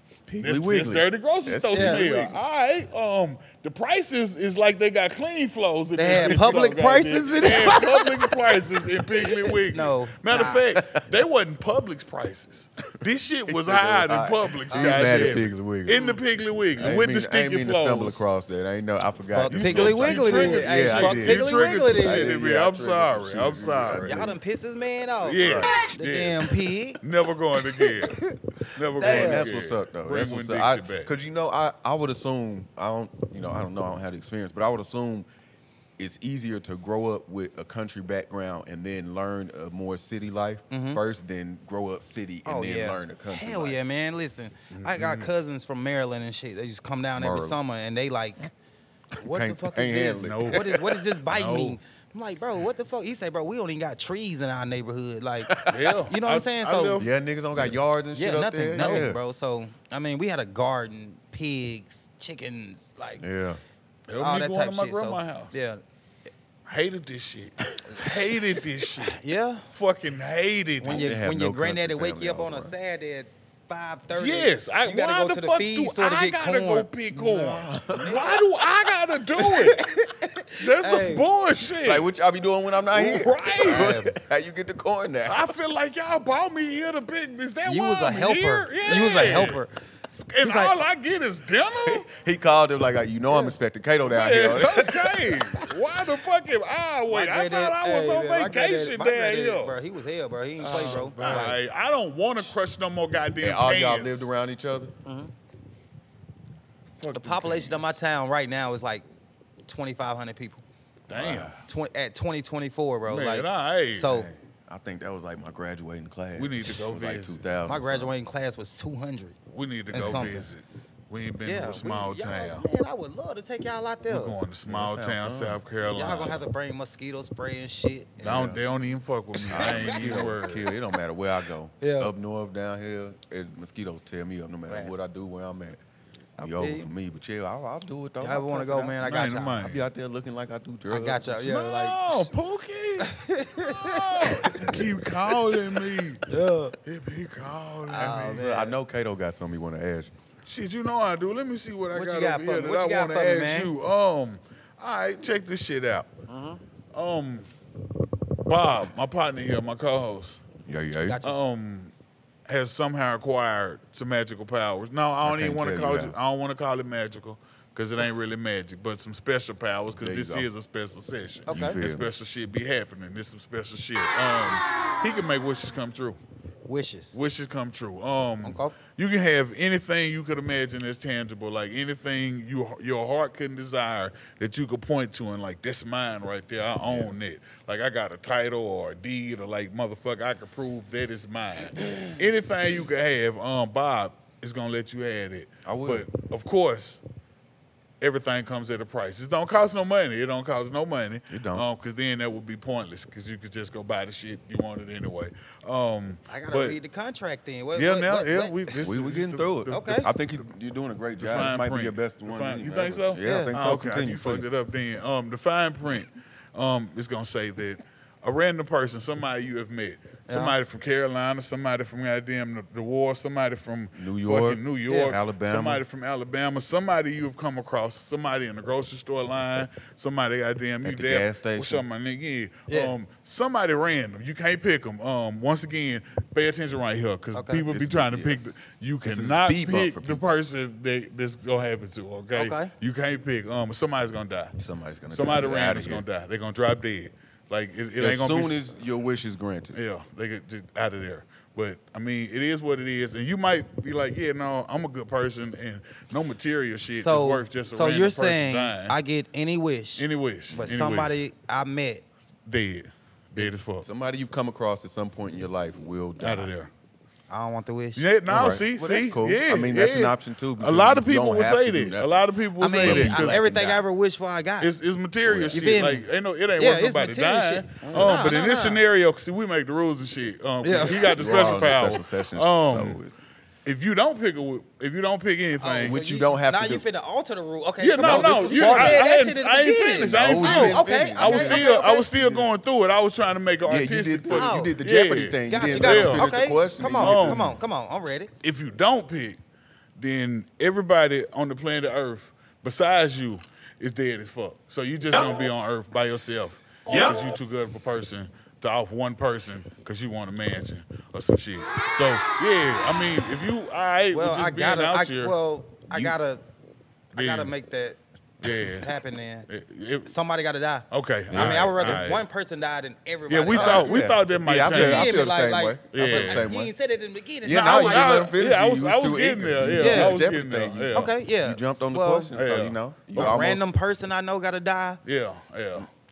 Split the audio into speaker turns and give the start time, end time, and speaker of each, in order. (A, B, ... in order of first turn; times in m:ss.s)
0:00.3-0:02.4 A
0:00.4-0:18.2 B
0:01.7-0:02.0 C
0:06.0-0:08.3 C
0:09.3-0:10.7 C
0:10.7-0:11.1 A
0:13.5-0:16.0 A
0:14.7-0:15.4 C
0:16.8-0:24.4 A
0:19.3-0:22.4 C
0:19.5-0:24.2 B
0:24.0-0:27.0 C
0:25.2-0:31.1 B
0:25.4-0:25.8 A
0:28.0-0:28.4 C
0:29.0-0:29.5 C
0:29.0-0:35.3 A
0:36.0-0:43.8 A
0:40.7-0:41.0 C
0:42.4-0:48.5 C
0:44.7-0:45.3 B
0:47.2-0:47.6 A
0:49.2-0:51.0 A
0:49.2-0:57.0 C
0:50.2-0:50.7 B
0:51.3-0:51.8 B
0:55.5-0:55.9 A
0:55.7-0:57.1 B
0:57.0-0:59.2 A
0:58.2-1:03.2 C
0:58.8-0:59.1 B
1:03.2-1:03.6 A
1:04.1-1:05.6 B
1:04.2-1:05.8 C
1:06.7-1:11.1 B
1:07.9-1:08.1 C
1:09.0-1:09.7 C
1:10.8-1:12.7 A
1:10.8-1:16.9 C
1:14.2-1:19.9 B
1:17.1-1:18.2 A
1:18.0-1:18.4 C
1:19.4-1:21.3 C
1:20.6-1:22.1 B
1:21.8-1:25.6 A
1:22.9-1:24.0 B
1:23.6-1:24.1 C
1:25.3-1:29.6 B
1:27.6-1:29.7 C
1:30.2-1:32.1 B
1:30.4-1:30.8 C
1:31.8-1:35.6 A
1:34.1-1:39.8 B
1:37.1-1:41.6 C
1:40.6-1:41.5 A
1:40.6-1:44.3 B
1:43.4-1:44.9 A
1:45.0-1:45.3 C
1:47.0-1:47.9 B
1:47.1-1:49.1 C
1:49.7-1:50.6 C
1:51.1-1:51.6 B
1:51.2-1:51.5 A
1:51.2-1:54.3 C
1:53.1-1:54.4 B
1:54.7-1:58.1 A
1:56.4-1:57.4 B
1:57.7-1:59.4 C
1:59.5-2:02.7 B
1:59.9-2:00.5 C
2:01.4-2:04.4 C
2:04.1-2:06.5 B
2:04.7-2:05.6 A
2:05.9-2:08.4 C
2:08.2-2:08.6 A
2:08.2-2:10.7 B
2:09.4-2:10.2 C
2:09.5-2:15.8 A
2:11.8-2:12.1 C
2:14.7-2:14.9 C
2:16.4-2:16.9 C
2:16.4-2:19.0 A
2:18.2-2:19.6 C
2:19.0-2:19.9 B
2:19.6-2:21.5 A
2:20.9-2:22.3 C
2:21.4-2:26.3 B
2:23.0-2:24.6 C
2:24.5-2:25.0 A
2:26.3-2:26.8 C
2:26.8-2:28.2 B
2:27.8-2:28.8 C
2:28.0-2:30.1 A
2:30.5-2:36.1 B
2:31.9-2:33.7 C
2:36.3-2:36.6 C
2:36.9-2:37.5 B
2:38.5-2:40.4 B
2:40.7-2:41.2 A
2:41.0-2:41.4 C
2:41.2-2:41.9 B
2:42.5-2:56.2 B
2:45.2-2:46.2 A
2:50.0-2:50.5 A
2:51.5-2:51.8 C
2:51.5-2:52.1 A
2:56.7-2:57.2 C
2:57.1-3:17.0 B
2:58.4-2:58.8 C
3:11.8-3:12.1 A
3:15.6-3:16.1 A
3:18.0-3:26.8 B
3:21.3-3:21.7 A
3:26.3-3:28.6 C
3:27.8-3:30.0 B
3:28.7-3:34.5 A
3:29.7-3:30.1 C
3:31.2-4:04.6 B
3:33.2-3:33.5 C
3:40.3-3:40.6 C
3:44.0-3:45.8 A
3:44.9-3:45.1 C
3:50.8-3:51.8 A
3:52.7-3:53.0 C
3:57.3-3:57.7 C
3:57.7-3:58.4 A
3:59.0-4:00.2 A
4:02.3-4:02.7 C
4:04.6-4:06.0 A
4:05.1-4:08.6 B
4:08.0-4:09.8 A
4:09.7-4:19.0 B
4:16.9-4:22.0 C
4:20.0-4:21.2 B
4:22.5-4:23.9 B
4:23.4-4:26.5 A
4:26.2-4:26.7 B
4:27.3-4:28.0 C
4:28.0-4:33.4 B
4:28.3-4:32.2 A
4:32.6-4:34.7 C
4:32.8-4:33.8 A
4:34.6-4:43.0 B
4:35.2-4:35.8 A
4:35.5-4:36.1 C
4:36.6-4:38.8 C
4:37.8-4:38.3 A
4:40.6-4:41.6 C
4:41.1-4:43.2 A
4:43.6-4:46.0 B
4:45.6-4:52.1 C
4:45.8-4:46.8 A
4:47.8-4:56.3 B
4:48.0-4:49.1 A
4:50.0-4:51.7 A
4:53.7-4:57.5 A
4:54.3-4:54.8 C
4:55.5-4:58.3 C
4:56.8-4:57.6 B
4:58.4-4:59.4 B
5:00.0-5:15.4 B
5:14.1-5:16.4 C
5:17.1-5:18.0 C
5:17.2-5:17.5 B
5:18.4-5:18.9 B
5:18.7-5:19.5 C
5:19.5-5:20.1 B
5:20.0-5:28.2 C
5:20.9-5:22.2 B
5:21.3-5:21.9 A
5:23.3-5:25.3 B
5:23.5-5:26.7 A
5:25.9-5:26.5 B
5:27.4-5:33.7 A
5:27.5-5:31.1 B
5:29.8-5:30.2 C
5:30.9-5:32.3 C
5:32.4-5:33.5 B
5:33.2-5:35.0 C
5:35.0-5:35.9 B